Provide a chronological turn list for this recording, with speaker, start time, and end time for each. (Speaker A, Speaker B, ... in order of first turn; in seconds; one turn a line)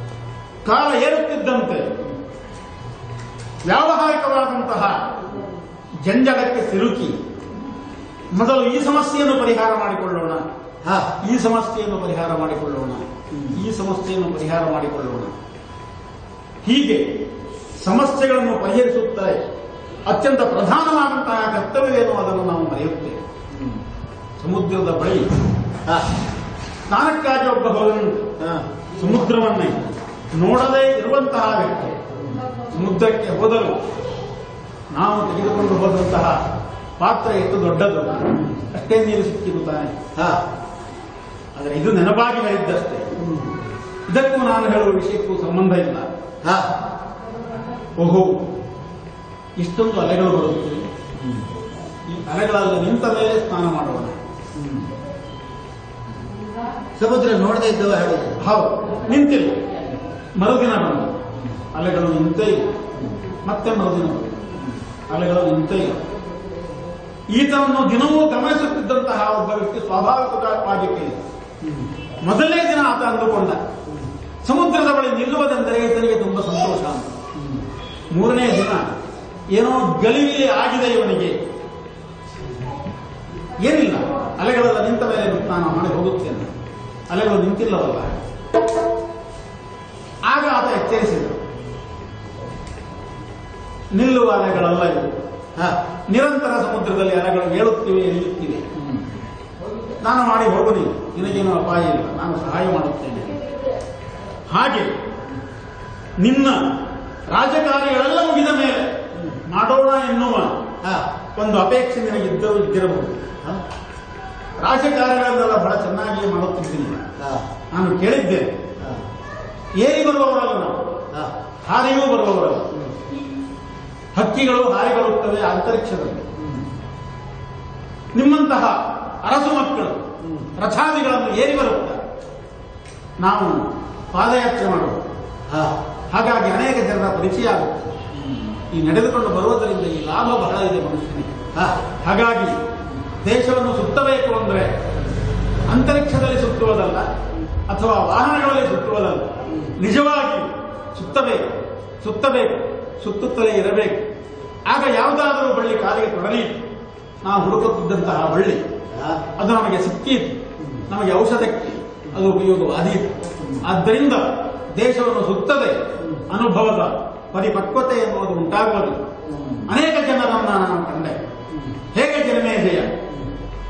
Speaker A: 0.6-1.9
Speaker A: 3.6-5.1
Speaker A: 6.0-7.2
Speaker A: 8.3-10.4
Speaker B: 10.8-11.1
Speaker A: 11.2-15.3
Speaker A: 16.6-17.2
Speaker A: 17.8-19.4
Speaker A: 20.1-23.2
Speaker B: 23.5-23.8
Speaker A: 24.4-25.3
Speaker A: 26.9-28.2
Speaker B: 28.4-28.6
Speaker A: 29.0-29.8
Speaker A: 30.3-31.9
Speaker A: 32.7-33.8
Speaker A: 34.9-36.4
Speaker A: 37.0-40.0
Speaker B: 38.4-38.6
Speaker A: 41.5-43.1
Speaker B: 43.2-43.5
Speaker A: 44.1-46.1
Speaker A: 48.0-48.4
Speaker A: 49.6-51.4
Speaker A: 52.1-54.2
Speaker B: 54.6-54.8
Speaker B: 57.0-58.4
Speaker A: 58.4-59.6
Speaker A: 60.4-62.9
Speaker A: 63.4-64.4
Speaker A: 65.1-66.0
Speaker A: 67.3-71.2
Speaker A: 72.2-73.6
Speaker A: 74.4-77.1
Speaker A: 78.1-78.9
Speaker A: 79.5-81.4
Speaker A: 83.6-86.5
Speaker A: 87.1-88.2
Speaker A: 90.2-91.4
Speaker A: 93.9-95.1
Speaker A: 96.1-98.7
Speaker A: 100.0-103.4
Speaker A: 104.5-104.9
Speaker A: 106.2-106.6
Speaker A: 107.3-110.5
Speaker A: 111.3-113.2
Speaker A: 114.6-117.0
Speaker B: 117.2-117.4
Speaker A: 117.7-118.5
Speaker A: 119.8-120.8
Speaker A: 121.7-122.7
Speaker A: 124.1-126.3
Speaker B: 126.4-126.6
Speaker A: 128.1-130.0
Speaker B: 130.2-130.5
Speaker A: 130.6-132.0
Speaker A: 133.2-135.0
Speaker B: 135.5-135.7
Speaker A: 136.1-141.3
Speaker B: 141.5-141.8
Speaker A: 142.0-142.6
Speaker A: 143.2-144.7
Speaker A: 145.7-147.1
Speaker A: 147.7-151.5
Speaker A: 152.0-154.1
Speaker A: 154.7-156.6
Speaker A: 157.2-158.6
Speaker B: 158.9-159.2
Speaker A: 159.4-169.1
Speaker B: 169.3-169.7
Speaker A: 169.7-171.2
Speaker A: 171.9-172.9